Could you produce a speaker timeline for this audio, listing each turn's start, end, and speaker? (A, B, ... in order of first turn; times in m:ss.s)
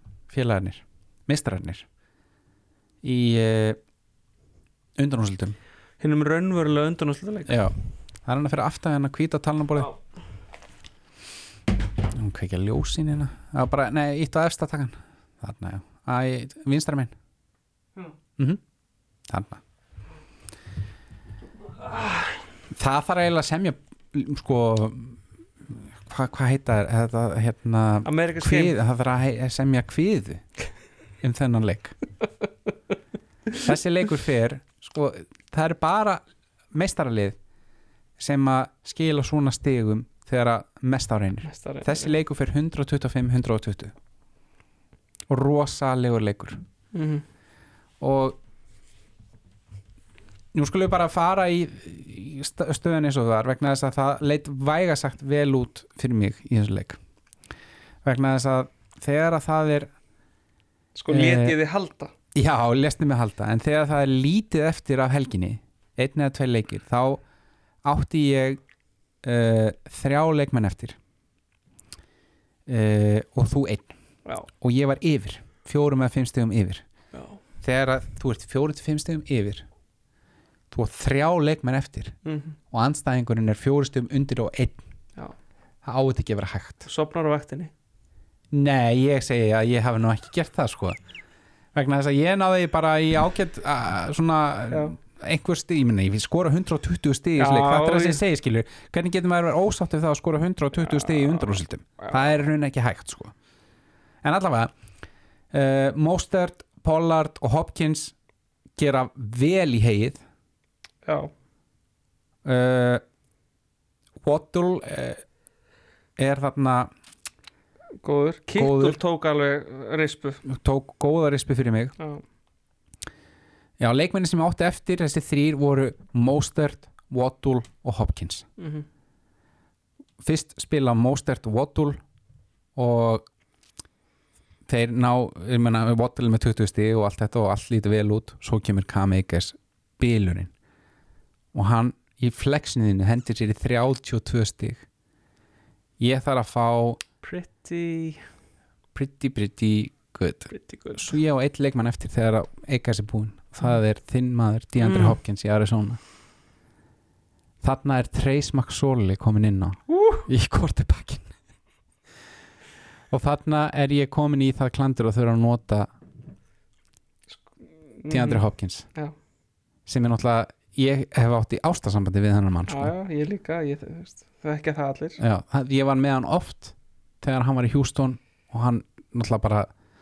0:00.3-0:01.9 A
0:03.0-0:03.8 A
0:05.0-0:05.6 A
0:06.0-0:07.6 B
0:07.5-0:09.9 A
0:12.1-0:17.1 A
0:19.3-0:19.6 A
0:21.9-0:22.4 B
0:22.7-0:30.4 A
0:28.0-0:28.8 B
0:31.2-0:32.0 A
0:33.6-0:36.2 A
0:36.7-0:37.4 A
0:38.2-0:44.0 A
0:41.4-0:42.1 B
0:45.3-0:46.6 A
0:46.9-0:47.2 B
0:48.0-0:48.4 A
0:50.5-0:57.0 A
0:58.0-0:59.9 A
1:01.0-1:02.1 B
1:01.1-1:01.6 A
1:02.4-1:07.2 A
1:07.8-1:08.6 A
1:09.2-1:11.0 A
1:12.7-1:13.9 A
1:14.5-1:16.8 A
1:17.1-1:17.4 B
1:17.6-1:19.7 A
1:20.7-1:22.2 A
1:22.2-1:22.6 B
1:22.7-1:24.8 A
1:25.8-1:26.8 A
1:26.8-1:27.7 B
1:28.5-1:31.0 A
1:31.7-1:43.3 A
1:34.7-1:35.0 B
1:37.4-1:38.2 B
1:40.9-1:42.2 B
1:44.2-1:44.7 A
1:45.5-1:48.2 A
1:48.8-1:50.2 A
1:51.1-1:51.3 B
1:52.4-1:53.0 A
1:54.2-1:55.2 A
1:56.2-1:56.9 A
1:58.0-2:00.4 B
1:58.6-1:59.0 A
2:00.4-2:02.0 A
2:03.8-2:08.5 A
2:08.6-2:08.9 B
2:10.2-2:12.0 A
2:12.8-2:13.3 A
2:14.7-2:20.5 A
2:21.5-2:24.8 A
2:26.0-2:27.0 A
2:27.2-2:28.3 B
2:28.9-2:36.0 A
2:30.5-2:31.1 B
2:34.8-2:35.2 B
2:37.6-2:41.3 A
2:39.9-2:40.3 B
2:43.1-2:45.9 A
2:47.3-2:49.1 B
2:48.1-2:48.9 A
2:49.9-2:52.9 A
2:52.7-2:55.2 B
2:55.2-2:59.7 A